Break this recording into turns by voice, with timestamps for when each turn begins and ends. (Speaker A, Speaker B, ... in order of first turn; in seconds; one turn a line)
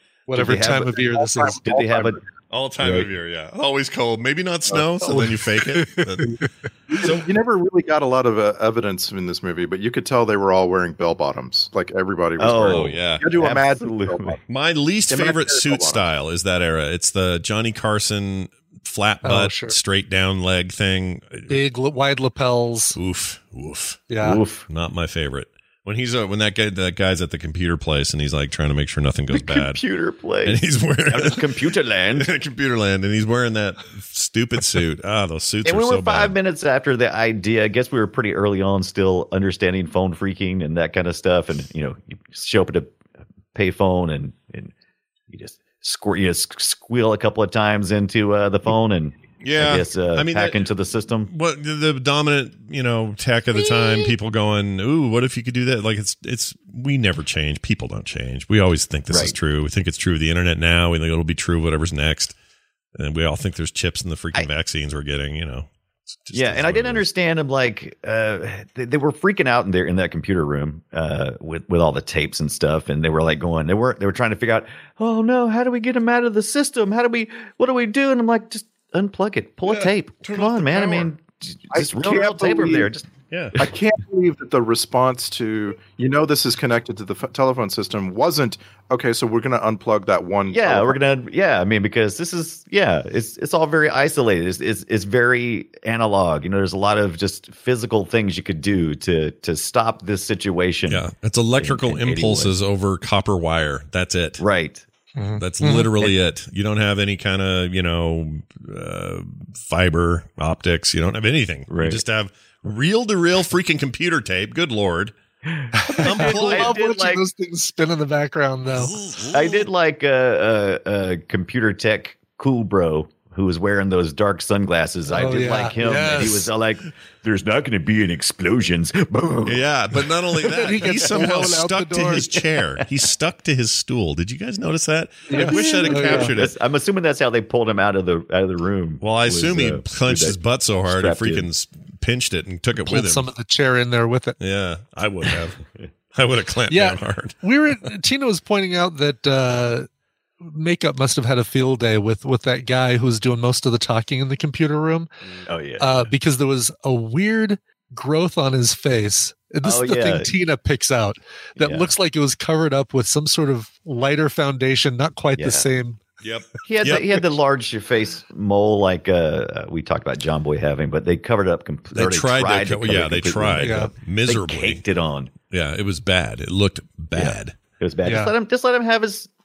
Speaker A: 0.3-1.6
Speaker B: 0.3-1.1
Speaker C: 1.1-2.2
Speaker B: 1.6-2.2
Speaker D: 2.5-6.4
Speaker A: 5.0-6.5
Speaker C: 6.9-14.4
Speaker B: 12.4-14.3
Speaker D: 12.5-13.2
Speaker D: 14.5-21.6
Speaker C: 15.1-16.1
Speaker A: 19.2-19.7
Speaker A: 21.5-22.9
Speaker D: 22.9-24.1
Speaker A: 24.1-24.4
Speaker B: 24.2-24.6
Speaker D: 24.7-29.8
Speaker B: 29.3-32.3
Speaker D: 30.4-36.3
Speaker B: 35.6-42.9
Speaker B: 43.5-44.7
Speaker B: 45.3-51.3
Speaker D: 49.4-50.7
Speaker D: 51.3-62.3
Speaker B: 59.1-59.3
Speaker D: 63.0-65.7
Speaker D: 66.2-67.1
Speaker B: 66.3-83.0
Speaker D: 79.6-81.1
Speaker C: 81.7-82.9
Speaker D: 83.3-83.5
Speaker C: 83.5-91.0
Speaker B: 90.5-101.0
Speaker D: 100.9-104.4
Speaker B: 101.6-102.5
Speaker B: 104.4-104.8
Speaker A: 105.2-105.9
Speaker D: 105.4-115.1
Speaker B: 111.7-112.0
Speaker B: 115.5-117.2
Speaker A: 115.7-118.9
Speaker D: 116.0-116.7
Speaker D: 118.7-119.7
Speaker B: 119.3-130.1
Speaker A: 125.1-126.5
Speaker D: 129.4-136.5
Speaker A: 130.5-132.4
Speaker A: 135.3-136.3
Speaker B: 135.3-141.5
Speaker D: 139.0-143.3
Speaker A: 142.8-144.4
Speaker D: 144.4-145.6
Speaker D: 146.1-147.3
Speaker A: 146.7-149.9
Speaker A: 150.4-155.1
Speaker B: 155.4-156.1
Speaker A: 155.8-166.0
Speaker B: 159.6-160.3
Speaker B: 161.6-161.9
Speaker B: 165.4-165.7
Speaker D: 166.2-167.0
Speaker B: 166.6-175.3
Speaker D: 171.9-174.8
Speaker A: 173.6-173.9
Speaker D: 175.5-177.5
Speaker B: 177.1-179.3
Speaker A: 178.0-178.3